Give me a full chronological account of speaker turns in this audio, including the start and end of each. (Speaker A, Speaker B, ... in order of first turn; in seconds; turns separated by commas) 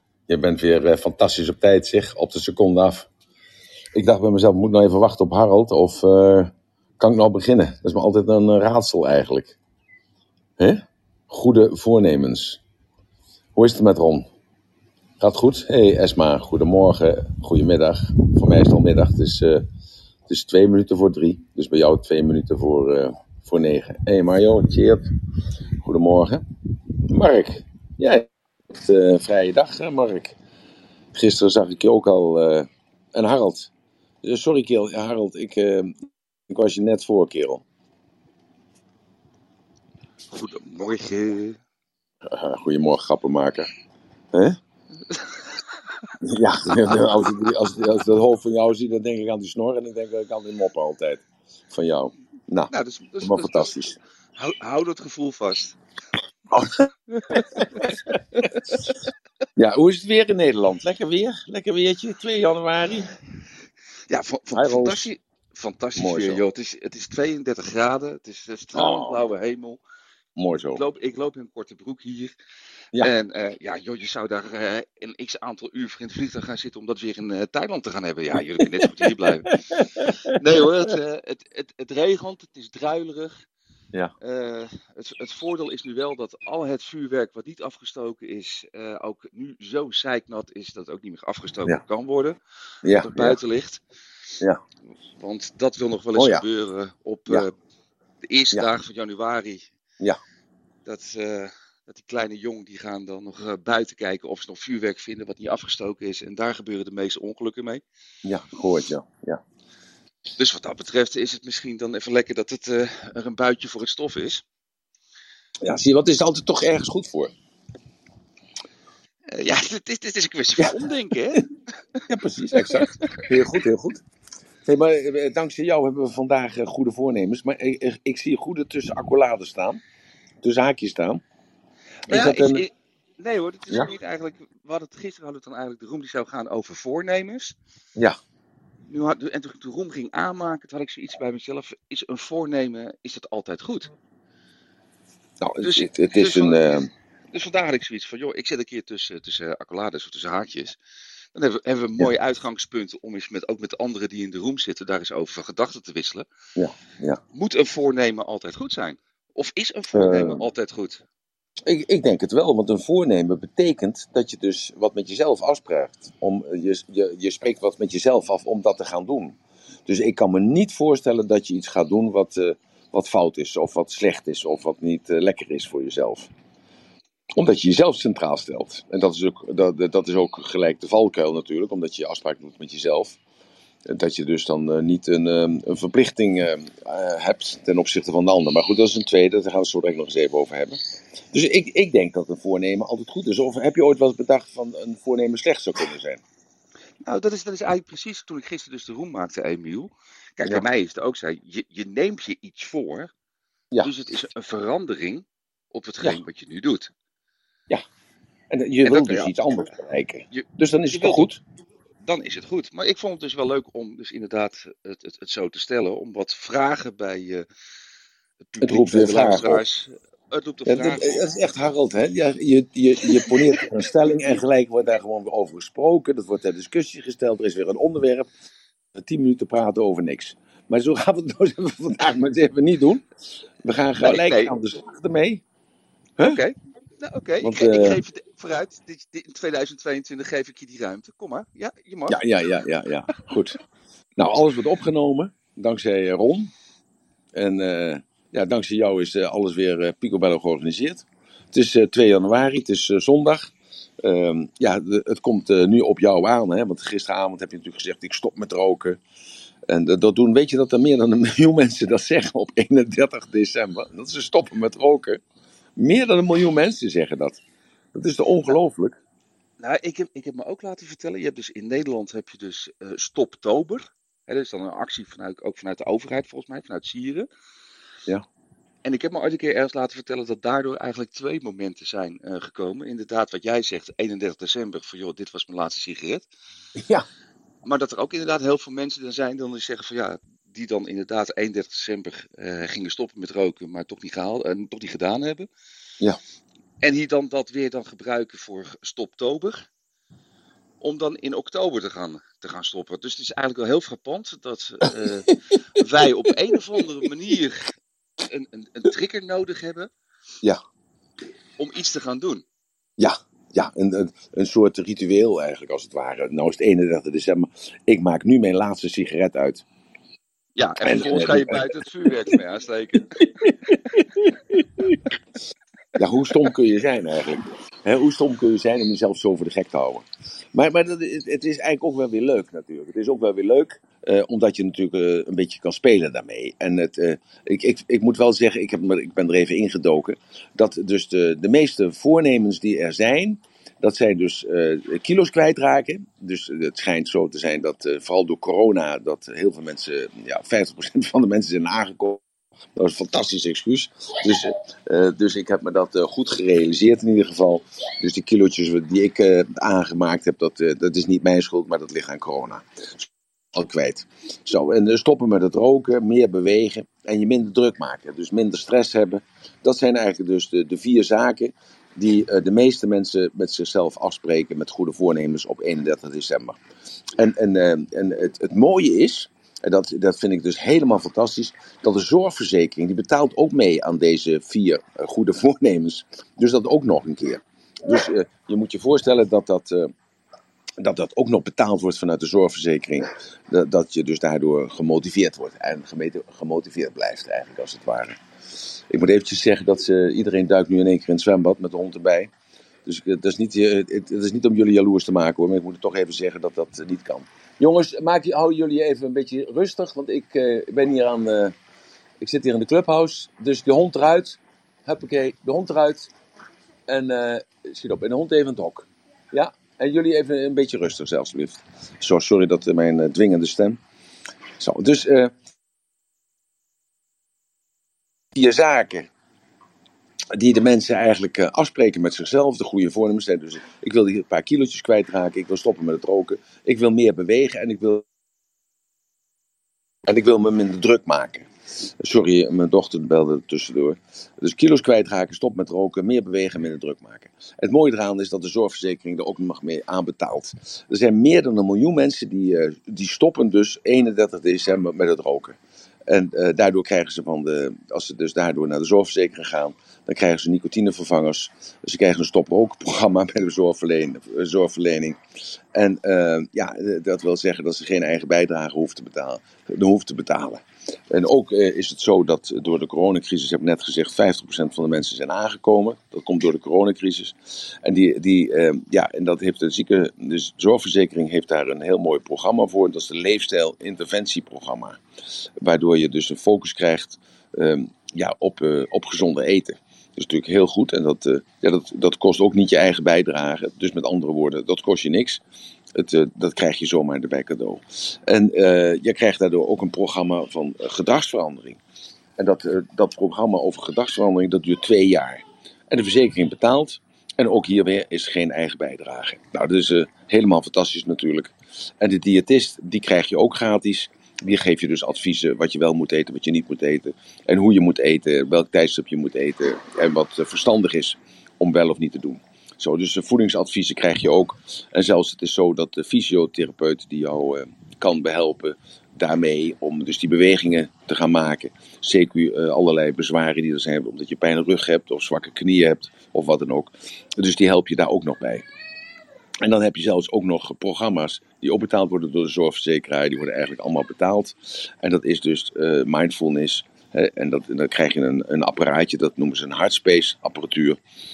Speaker A: 0.3-3.1, Speaker A: 3.9-9.6, Speaker A: 10.6-12.6, Speaker A: 13.6-14.3, Speaker A: 15.2-19.6, Speaker A: 20.3-25.1, Speaker A: 25.8-26.4, Speaker A: 27.0-30.4, Speaker A: 31.1-33.7, Speaker A: 34.2-36.0, Speaker A: 36.5-37.6, Speaker B: 40.3-41.6, Speaker A: 42.2-43.7, Speaker A: 44.3-44.6, Speaker B: 45.1-46.1, Speaker A: 46.2-54.0, Speaker B: 46.8-47.6, Speaker B: 52.7-53.8, Speaker B: 54.4-55.8, Speaker A: 56.5-58.2, Speaker B: 57.1-58.8, Speaker A: 59.6-63.1, Speaker B: 64.1-69.8, Speaker A: 64.5-65.1, Speaker A: 66.0-66.4, Speaker A: 68.7-69.2, Speaker A: 70.4-70.8, Speaker B: 70.8-72.4, Speaker B: 73.0-79.5, Speaker A: 78.8-80.4, Speaker B: 80.1-83.4, Speaker B: 84.2-92.4, Speaker A: 92.8-93.4, Speaker B: 92.9-93.8, Speaker B: 95.2-97.5, Speaker A: 96.2-96.4, Speaker B: 98.2-99.7, Speaker B: 100.8-107.8, Speaker A: 108.2-109.4, Speaker B: 110.3-114.4, Speaker A: 115.6-117.3, Speaker B: 119.3-122.0, Speaker A: 122.1-124.0, Speaker B: 122.5-123.3, Speaker A: 124.7-129.8, Speaker A: 130.4-131.2, Speaker A: 132.1-132.7, Speaker B: 132.1-137.6, Speaker B: 138.9-143.9, Speaker A: 145.4-146.9, Speaker B: 145.6-146.7, Speaker B: 147.3-150.8, Speaker B: 151.3-156.3, Speaker A: 156.6-157.2, Speaker B: 157.3-161.0, Speaker A: 159.9-160.4, Speaker A: 161.7-176.3, Speaker A: 177.3-183.2, Speaker A: 183.9-190.8, Speaker A: 191.3-196.2, Speaker B: 197.0-203.1, Speaker B: 203.8-206.9, Speaker A: 208.5-211.4, Speaker B: 208.8-209.3, Speaker B: 210.3-211.3, Speaker B: 212.0-217.5, Speaker B: 218.4-221.2, Speaker A: 218.6-219.6, Speaker A: 220.7-228.3, Speaker A: 229.0-233.0, Speaker A: 233.6-235.4, Speaker B: 234.0-234.6, Speaker B: 236.2-242.2, Speaker A: 237.4-238.0, Speaker A: 242.1-243.6, Speaker A: 244.2-246.5, Speaker A: 247.3-259.0, Speaker A: 259.7-265.2, Speaker A: 265.8-267.4, Speaker A: 267.9-269.0, Speaker B: 269.6-277.3, Speaker B: 278.8-286.3, Speaker A: 286.8-287.1, Speaker B: 287.6-295.5, Speaker B: 296.8-299.7, Speaker B: 300.8-309.9, Speaker B: 311.6-312.4, Speaker A: 313.0-319.6, Speaker B: 320.6-324.1, Speaker A: 320.8-321.7, Speaker A: 323.5-325.0, Speaker A: 325.9-352.2, Speaker A: 352.8-376.6, Speaker A: 377.2-389.9, Speaker A: 390.8-398.2, Speaker A: 398.9-402.3, Speaker A: 402.9-411.5, Speaker A: 412.2-416.1, Speaker A: 416.9-423.8, Speaker A: 424.6-425.3, Speaker A: 428.3-429.1, Speaker A: 430.3-438.1, Speaker A: 440.1-441.5, Speaker A: 442.0-465.2, Speaker A: 465.7-485.0, Speaker A: 485.6-495.4, Speaker A: 495.9-501.8, Speaker A: 502.4-538.6, Speaker A: 539.6-551.0